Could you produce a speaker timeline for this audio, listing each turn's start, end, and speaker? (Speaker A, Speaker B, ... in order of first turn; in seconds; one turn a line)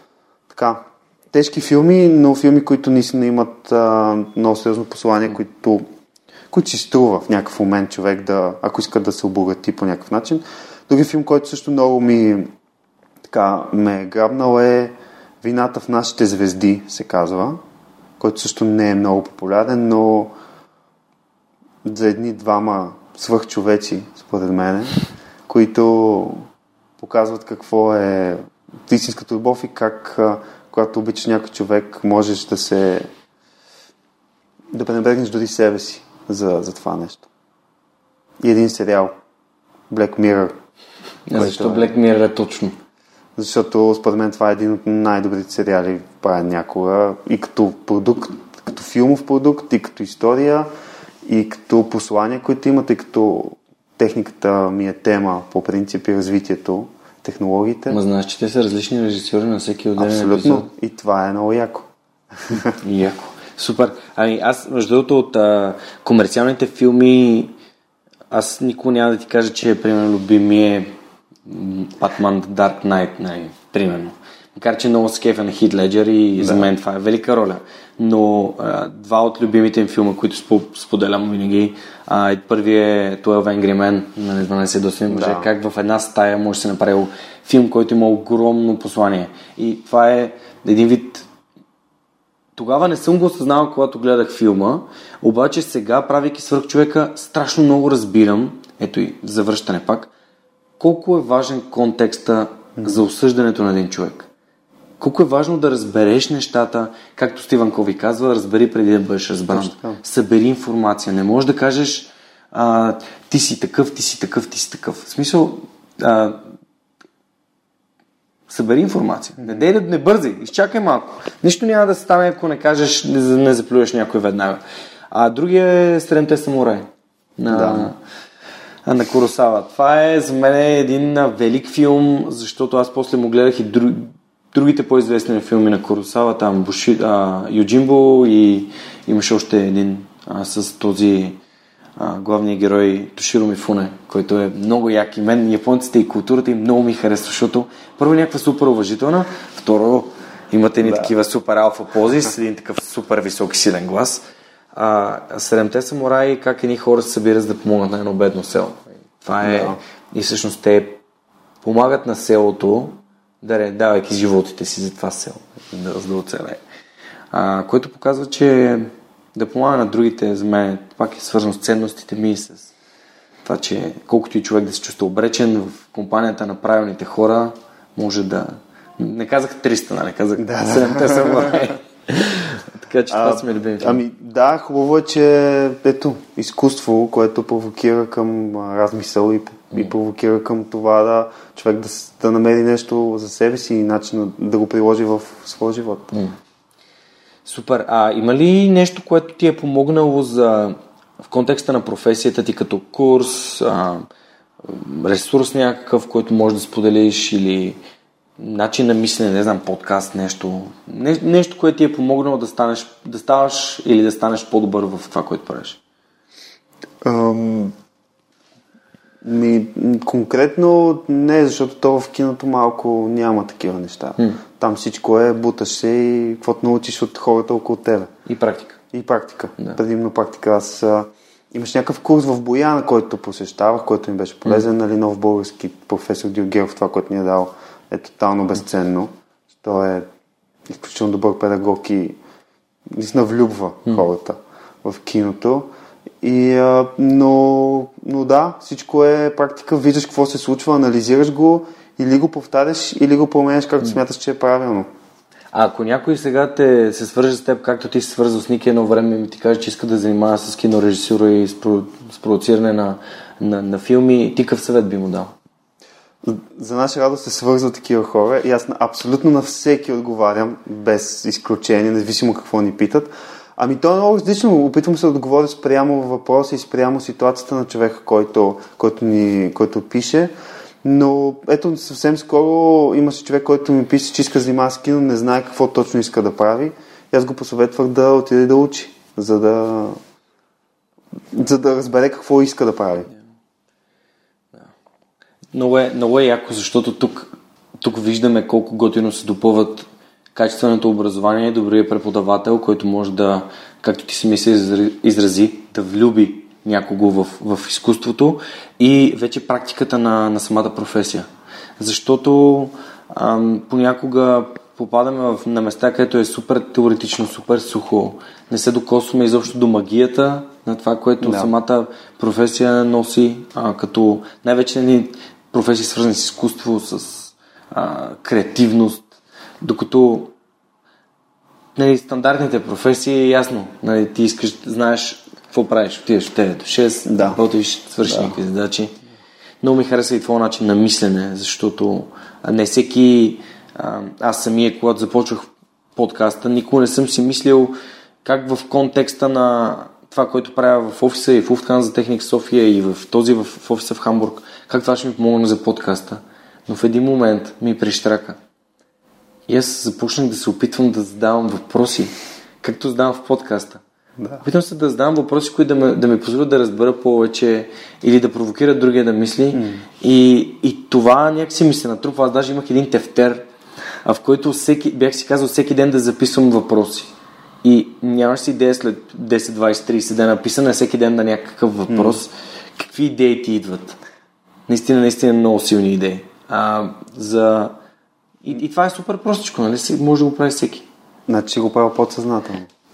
Speaker A: 0.5-5.8
Speaker A: 6.5-12.5
Speaker A: 13.2-17.6
Speaker A: 18.2-20.3
Speaker A: 21.8-25.0
Speaker A: 25.5-26.5
Speaker A: 27.0-33.1
Speaker A: 34.7-37.3
Speaker A: 38.4-39.1
Speaker A: 39.9-40.5
Speaker B: 41.3-42.8
Speaker A: 41.4-41.9
Speaker A: 43.4-50.7
Speaker A: 51.3-58.0
Speaker B: 57.9-60.7
Speaker A: 60.0-61.9
Speaker B: 62.8-67.5
Speaker B: 68.3-70.9
Speaker B: 71.5-91.2
Speaker A: 76.4-76.7
Speaker A: 85.1-85.5
Speaker B: 92.6-100.1
Speaker B: 100.8-104.3
Speaker A: 102.8-103.0
Speaker B: 105.0-116.5
Speaker A: 109.5-110.0
Speaker B: 118.5-128.0
Speaker A: 119.4-119.7
Speaker A: 127.5-127.9
Speaker B: 128.8-141.4
Speaker B: 142.0-161.0
Speaker A: 150.8-151.1
Speaker A: 159.4-159.8
Speaker B: 161.6-166.6
Speaker B: 167.3-172.7
Speaker B: 173.4-184.0
Speaker A: 180.4-181.7
Speaker A: 183.1-196.1
Speaker B: 197.4-204.1
Speaker B: 204.7-207.8
Speaker B: 208.4-215.8
Speaker A: 217.0-217.7
Speaker A: 219.2-228.1
Speaker B: 228.3-228.8
Speaker A: 228.9-240.1
Speaker A: 240.7-242.2
Speaker A: 242.9-245.7
Speaker A: 246.2-254.9
Speaker B: 255.5-265.3
Speaker A: 266.2-290.0
Speaker A: 291.3-293.1
Speaker B: 295.5-311.3
Speaker B: 311.8-329.1
Speaker A: 321.2-321.5
Speaker B: 329.6-330.3
Speaker B: 331.8-339.0
Speaker A: 337.1-337.4
Speaker A: 338.1-338.4
Speaker B: 339.6-358.4
Speaker B: 359.5-363.8
Speaker A: 364.2-364.4
Speaker B: 364.4-373.4
Speaker A: 369.5-369.9
Speaker B: 374.1-377.1
Speaker B: 377.6-384.0
Speaker A: 381.9-382.2
Speaker B: 384.7-387.8
Speaker B: 388.4-390.9
Speaker A: 391.3-392.7